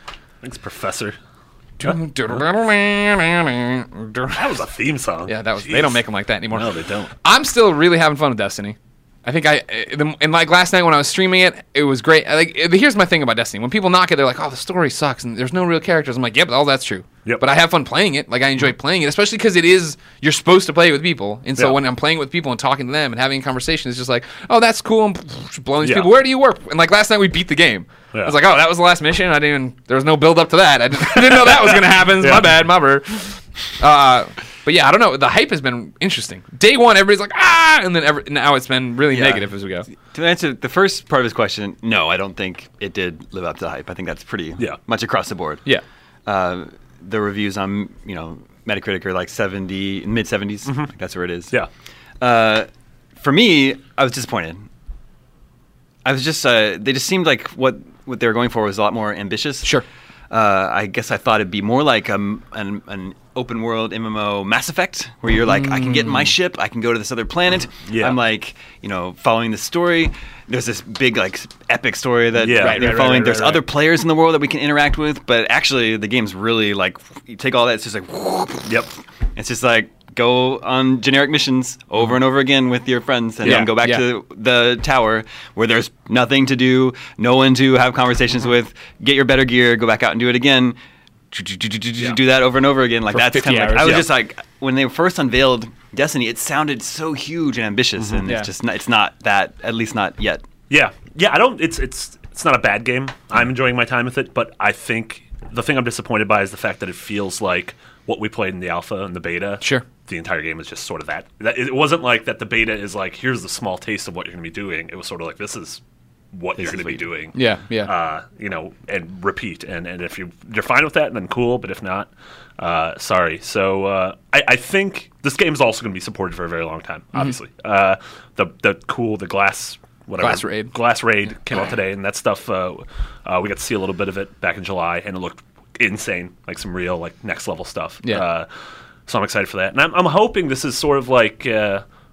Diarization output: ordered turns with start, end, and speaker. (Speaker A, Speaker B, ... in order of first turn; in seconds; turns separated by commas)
Speaker A: 0.4-1.2, Speaker B: 1.8-4.4, Speaker A: 4.3-6.0, Speaker B: 5.3-39.9, Speaker A: 6.5-7.1, Speaker A: 25.8-26.1, Speaker A: 31.1-32.5, Speaker C: 39.1-45.6, Speaker C: 46.2-51.5, Speaker C: 52.2-52.7, Speaker C: 53.2-54.7, Speaker C: 56.0-59.7, Speaker C: 60.3-90.8, Speaker B: 65.4-66.3, Speaker A: 67.9-68.2, Speaker A: 72.4-73.3, Speaker B: 72.6-73.6, Speaker A: 78.7-78.9, Speaker B: 83.4-84.0, Speaker A: 83.4-83.7, Speaker C: 91.3-100.4, Speaker B: 93.1-94.1, Speaker A: 93.8-94.1, Speaker B: 98.2-98.5, Speaker A: 100.7-115.8, Speaker A: 116.3-138.5, Speaker C: 116.6-117.0, Speaker B: 117.3-117.9, Speaker B: 130.2-130.7, Speaker A: 139.1-141.8